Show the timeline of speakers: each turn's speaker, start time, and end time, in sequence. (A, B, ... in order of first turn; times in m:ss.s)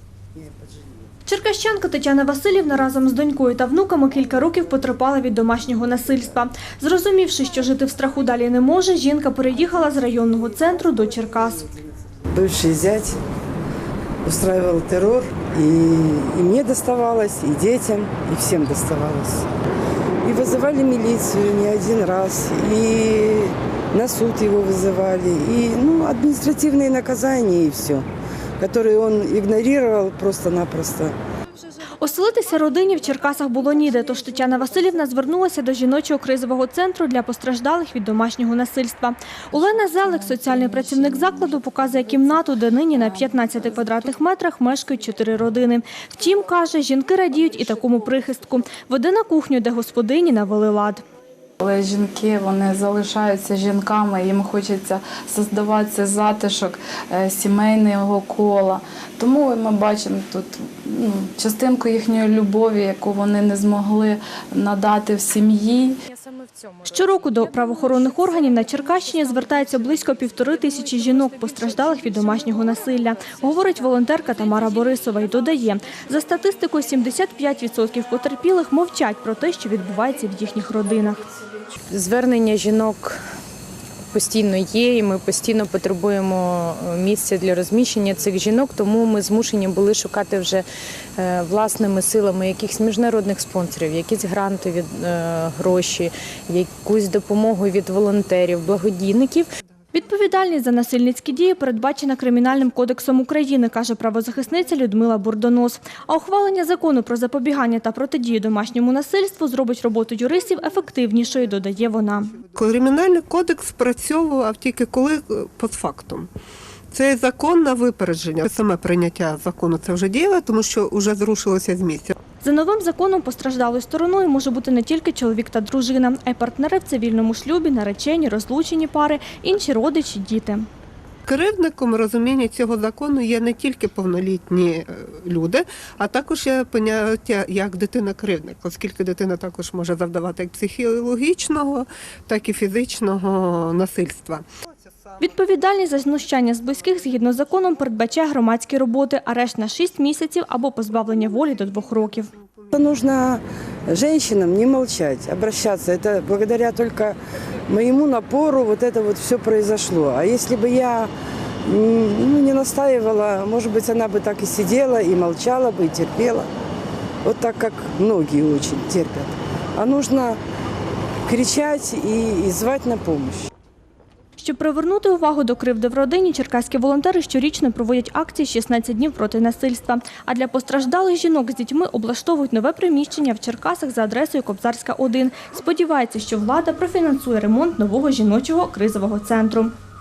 0:01.2-0:11.7 A
0:12.3-0:13.2 B
0:14.2-0:19.5 B
0:20.2-0:28.1 B
0:28.6-0:31.2 B
0:32.0-0:51.0 A
0:51.6-1:06.0 C
1:06.1-1:08.3 D
1:06.8-1:21.2 A
1:21.9-1:23.2 D
1:24.1-1:30.6 D
1:31.2-1:39.5 D
1:39.9-1:52.4 A
1:52.5-1:56.3 E
1:56.9-2:02.1 E
2:02.4-2:10.7 A
2:11.3-2:24.4 E
2:25.2-2:32.3 A
2:32.7-2:41.1 B
2:41.6-2:46.5 B
2:47.2-2:50.4 B
2:51.2-2:53.5 B
2:54.4-3:09.7 A